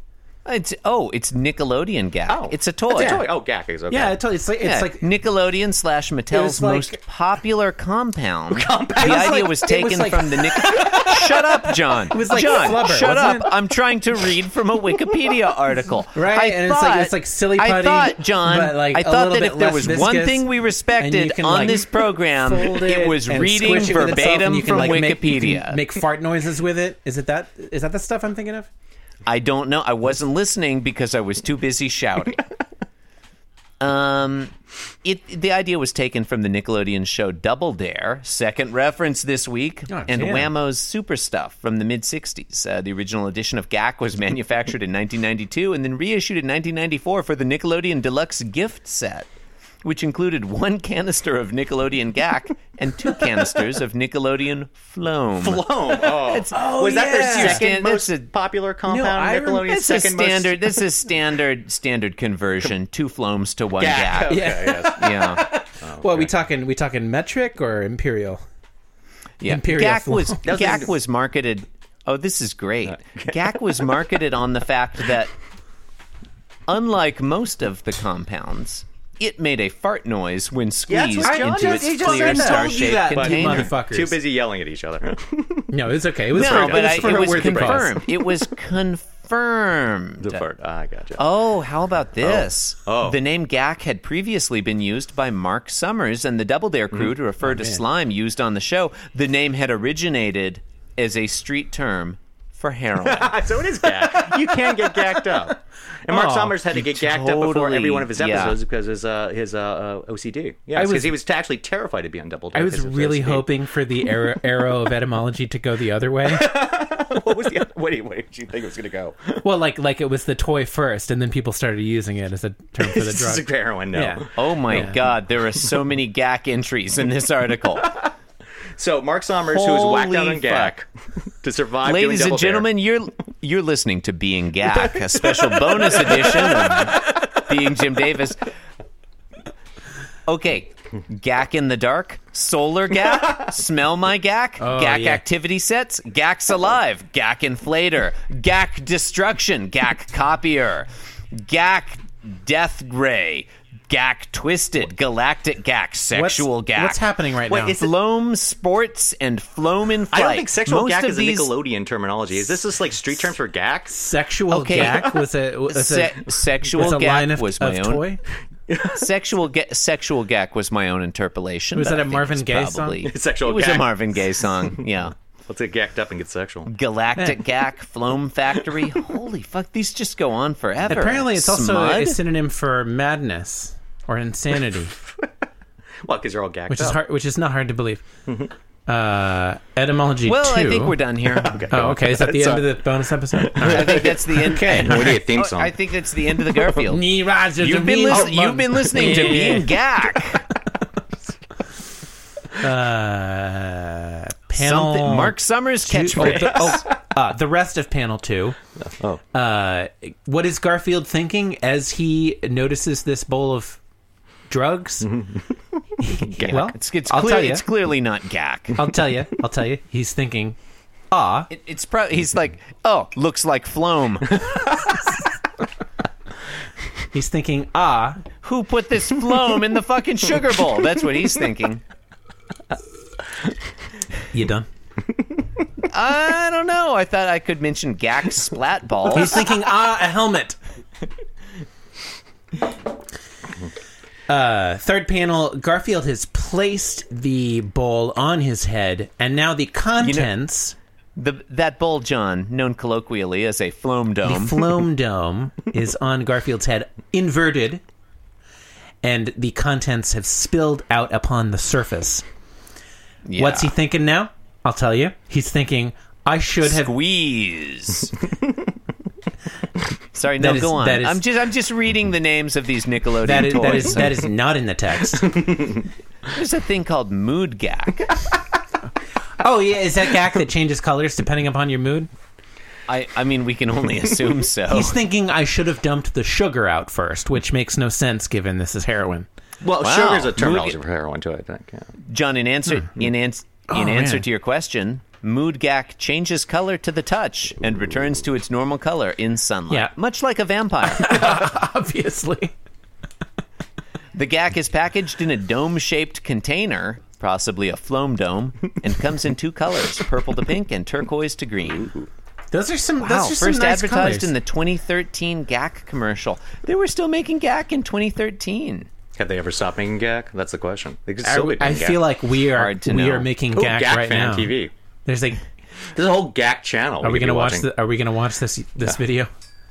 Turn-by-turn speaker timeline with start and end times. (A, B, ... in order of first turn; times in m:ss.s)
0:00.4-0:03.2 A
0:02.3-0:04.2 B
0:02.9-0:03.3 C
0:03.9-0:05.1 C
0:04.6-0:25.8 A
0:06.3-0:07.0 C
0:08.5-0:09.4 B
0:08.9-0:13.6 C
0:16.1-0:28.7 C
0:29.2-0:32.4 A
0:33.8-0:34.5 A
0:35.0-0:49.3 A
0:39.9-0:40.5 C
0:49.8-0:58.3 A
0:55.4-1:00.8 B
0:56.5-0:57.6 C
0:58.8-0:59.8 C
0:59.6-1:05.4 A
1:03.8-1:05.1 B
1:04.3-1:08.4 C
1:05.6-1:06.3 B
1:09.4-1:15.3 A
1:09.4-1:10.7 C
1:10.4-1:10.9 B
1:12.9-1:13.7 B
1:16.7-1:23.7 A
1:20.9-1:25.8 B
1:21.2-1:24.2 C
1:25.7-1:28.2 C
1:26.3-1:28.0 B
1:26.3-1:30.4 A
1:30.2-1:31.2 B
1:31.2-1:43.4 A
1:32.2-1:33.2 B
1:37.4-1:37.8 C
1:43.0-1:53.5 B
1:44.7-1:45.0 C
1:46.1-1:46.8 C
1:46.9-1:48.6 A
1:50.7-1:51.2 C
1:52.5-1:56.5 C
1:56.2-1:59.4 B
1:59.4-2:05.0 C
2:02.8-2:04.9 B
2:04.4-2:07.9 A
2:08.8-2:10.9 B
2:09.5-2:10.7 A
2:11.4-2:12.7 B
2:11.8-2:18.5 A
2:15.0-2:16.8 B
2:20.3-2:41.5 A
2:24.6-2:25.2 C
2:36.1-2:37.8 C
2:40.1-2:44.0 B
2:43.9-2:48.2 C
2:44.5-2:45.0 A
2:44.7-2:45.2 B
2:45.7-2:48.0 A
2:48.7-2:49.0 B
2:48.9-2:55.1 A
2:51.7-2:53.0 C
2:53.0-2:54.8 B
2:55.5-2:56.7 B
2:56.7-3:02.2 A
3:00.9-3:04.9 C
3:06.0-3:07.0 B
3:06.7-3:08.0 C
3:08.2-3:08.5 B
3:08.9-3:11.0 C
3:10.2-3:11.7 A
3:11.3-3:12.7 B
3:11.7-3:15.2 C
3:13.3-3:15.8 B
3:13.6-3:17.0 A
3:16.8-3:19.7 C
3:17.6-3:20.4 A
3:18.1-3:19.6 B
3:22.6-3:28.6 C
3:24.5-3:26.8 A
3:26.2-3:26.8 B
3:28.8-3:29.2 B
3:29.3-3:33.8 C
3:34.5-3:35.1 C
3:35.0-3:35.4 B
3:36.0-3:37.6 C
3:36.1-3:36.7 B
3:36.5-3:38.8 A
3:38.8-3:40.6 C
3:41.1-3:41.5 C
3:41.5-3:44.4 A
3:44.4-3:44.9 B
3:47.1-3:48.2 C
3:48.4-3:51.8 A
3:54.3-3:54.7 C
3:55.9-3:59.4 A
3:59.1-4:00.6 C
4:04.3-4:10.8 C
4:10.0-4:10.3 A
4:11.2-4:14.7 A
4:14.2-4:17.8 C
4:19.0-4:22.2 C
4:23.3-4:23.7 A
4:23.4-4:26.9 C
4:26.6-4:28.2 A
4:30.1-4:34.1 A
4:30.4-4:31.2 C
4:33.2-4:35.5 C
4:35.3-4:35.6 B
4:36.3-4:38.1 A
4:39.4-4:42.1 C
4:42.9-4:45.0 A
4:44.7-4:49.3 C
4:49.6-4:51.9 B
4:49.8-4:50.8 A
4:52.1-5:01.1 A
4:53.7-4:54.2 C
5:00.8-5:02.5 C
5:04.1-5:11.9 A
5:11.8-5:12.1 B
5:12.5-5:14.3 C
5:13.0-5:18.9 A
5:19.2-5:22.0 B
5:21.2-5:25.4 C
5:22.5-5:23.3 A
5:23.5-5:24.7 B
5:25.9-5:27.7 B
5:27.0-5:29.3 C